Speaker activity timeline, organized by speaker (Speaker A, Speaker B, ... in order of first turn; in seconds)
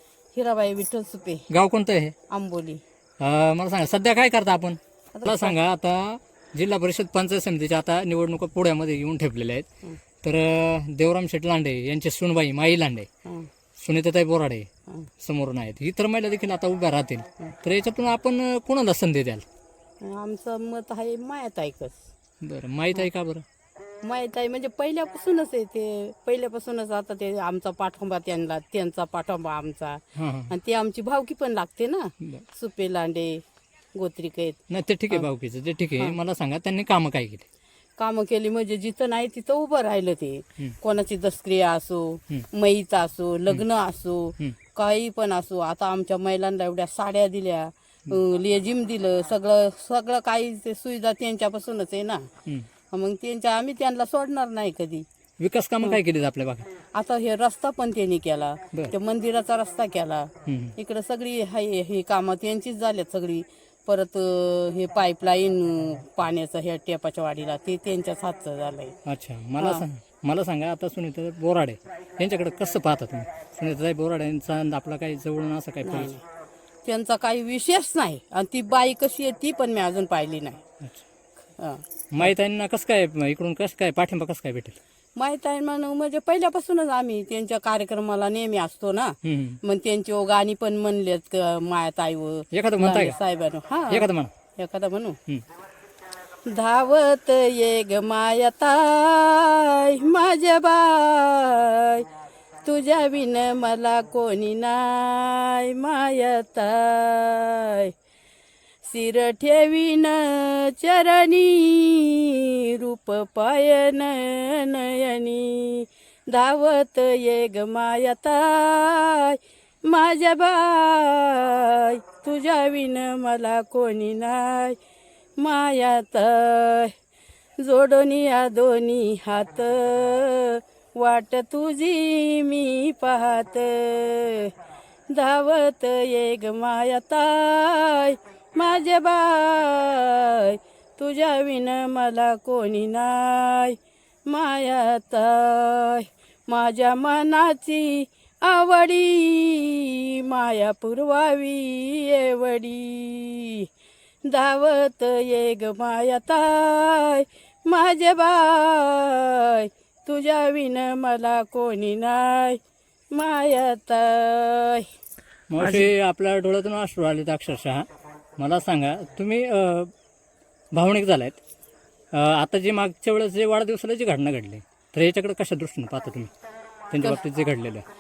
Speaker A: 0.3-1.5, 2.3-2.8, 5.1-5.6, 20.0-22.1, 24.0-33.4, 34.0-35.3, 38.0-52.3, 52.9-55.0, 56.9-69.0, 69.6-69.8, 75.8-76.2, 76.9-80.6, 81.6-82.3, 85.2-94.1, 94.6-95.2, 96.5-102.1, 102.6-107.9, 108.8-124.8, 125.4-126.9, 127.6-134.5, 135.1-153.7, 154.2-162.6, 163.1-164.9
Speaker B: 1.5-2.1, 3.2-9.7, 10.2-13.1, 13.8-14.7, 15.2-19.4, 22.4-23.4, 30.2-30.5, 34.7-37.5, 55.4-56.7, 60.5-60.7, 69.1-76.1, 82.1-84.8, 89.2-89.6, 92.5-93.2, 93.9-94.3, 165.5-167.9, 168.4-169.9, 170.7-171.4, 172.1-176.3, 176.9-177.8